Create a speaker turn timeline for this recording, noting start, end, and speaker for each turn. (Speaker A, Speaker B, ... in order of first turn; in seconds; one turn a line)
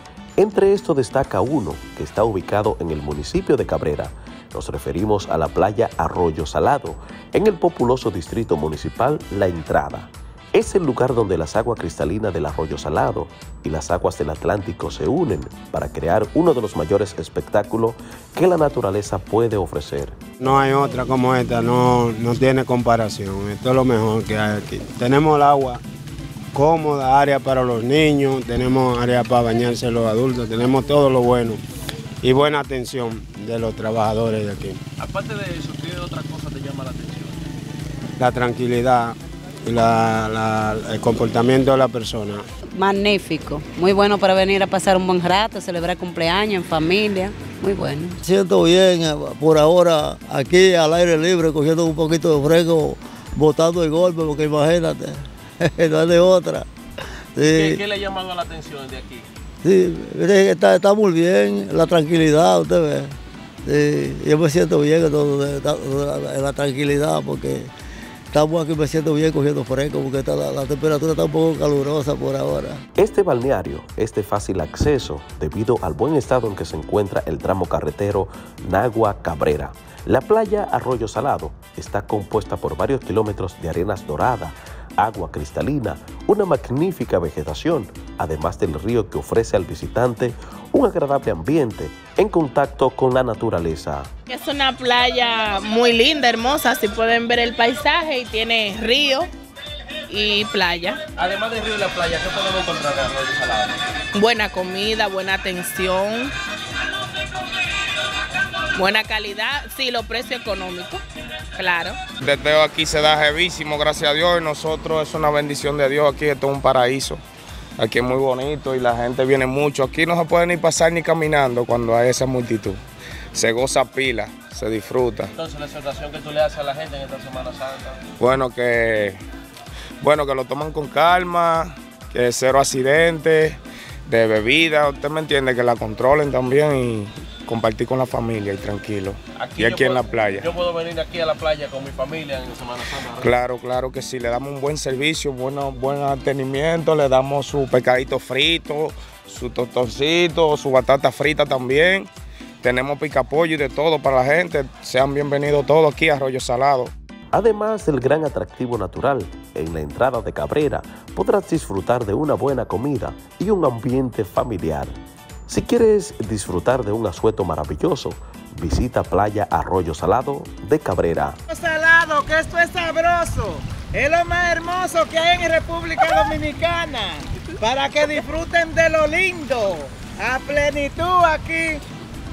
Speaker A: 0.4-20.2
Speaker B: 20.4-25.8
Speaker B: 26.5-31.6
Speaker B: 32.2-34.8
Speaker C: 35.0-37.4
Speaker B: 38.2-42.4
Speaker D: 42.7-48.2
Speaker E: 48.2-56.7
Speaker E: 57.4-57.8
Speaker C: 57.4-59.3
Speaker E: 59.6-63.1
Speaker E: 63.6-67.7
Speaker E: 68.3-72.8
Speaker A: 73.0-94.1
Speaker F: 94.3-99.3
Speaker F: 100.1-101.0
Speaker C: 101.2-103.8
Speaker F: 104.1-106.3
Speaker F: 108.7-111.0
Speaker F: 111.5-112.0
Speaker G: 112.2-117.2
Speaker G: 117.8-122.8
Speaker G: 123.3-125.3
Speaker C: 125.3-128.0
Speaker G: 128.2-129.2
Speaker G: 130.0-140.5
Speaker C: 139.4-143.3
Speaker G: 143.2-152.1
Speaker G: 152.6-156.9
Speaker A: 157.3-164.9
Speaker A: 165.5-171.4
Speaker H: 171.5-181.8